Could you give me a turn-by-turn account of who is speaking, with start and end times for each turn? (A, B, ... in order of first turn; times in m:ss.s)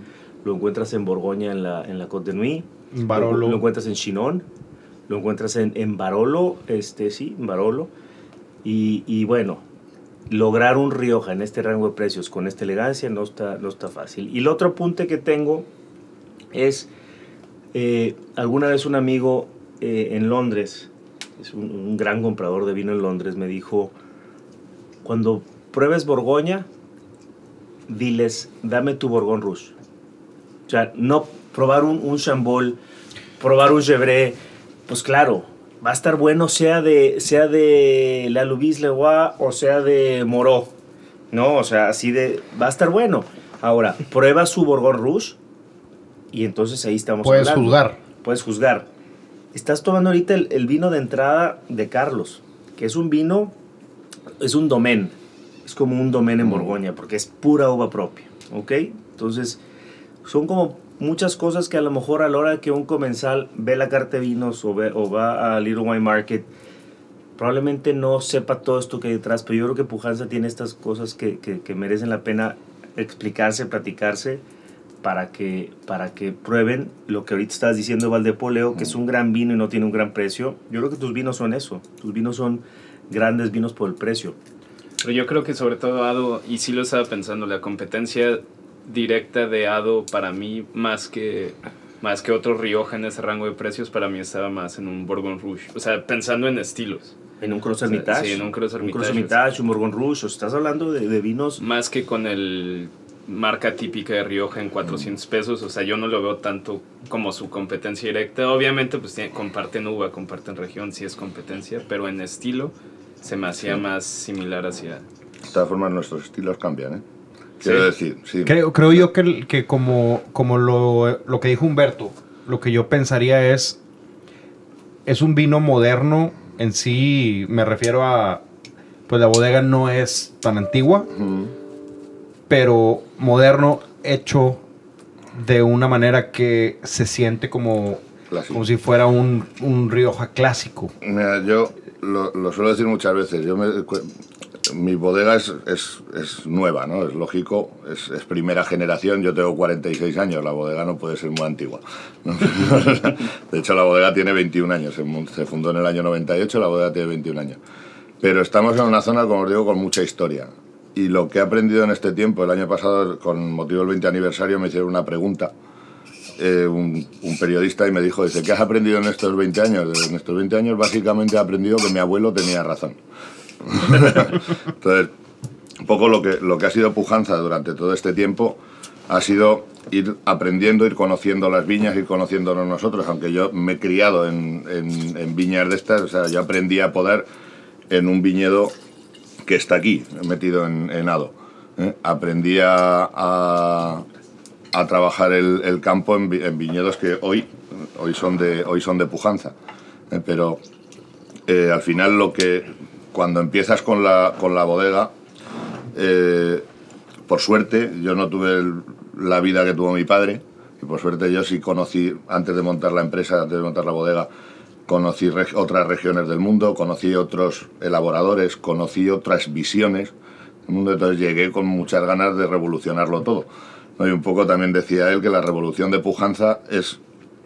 0:00.4-0:04.4 A
0:02.9-0:03.6 B
0:05.1-0:07.9 A
0:08.6-0:09.6 A
0:10.3-0:15.7 A
0:16.5-0:16.9 A
0:17.7-0:23.9 A
0:25.0-0:26.7 A
0:27.9-0:29.7 A
0:30.7-0:32.8 A
0:33.4-0:40.7 A
0:41.3-0:45.4 A
0:46.3-0:48.9 A
0:47.2-0:48.0 B
0:49.5-0:53.6 A
0:54.4-0:59.6 A
0:56.4-0:56.7 C
1:00.2-1:06.5 A
1:07.4-1:14.4 A
1:15.0-1:24.4 A
1:25.0-1:37.1 D
1:37.4-1:41.6 A
1:37.9-1:39.3 D
1:41.6-1:55.0 D
1:55.5-1:57.0 C
1:57.6-1:57.9 D
1:57.6-1:59.1 C
1:58.4-2:03.8 B
2:05.0-2:08.4 B
2:09.1-2:11.1 B
2:11.1-2:11.5 C
2:12.5-2:14.6 B
2:15.3-2:20.9 B
2:18.3-2:18.6 C
2:21.0-2:24.1 C
2:24.6-2:37.6 C
2:38.2-2:45.5 C
2:46.4-2:53.0 C
2:53.6-2:55.1 C
2:55.8-3:07.2 C
3:07.9-3:08.7 C
3:09.4-3:14.1 C
3:14.7-3:19.5 C
3:20.1-3:20.6 C
3:21.5-3:25.1 C
3:25.9-3:26.6 C
3:27.3-3:34.3 C
3:34.9-3:40.1 C
3:40.7-3:47.0 C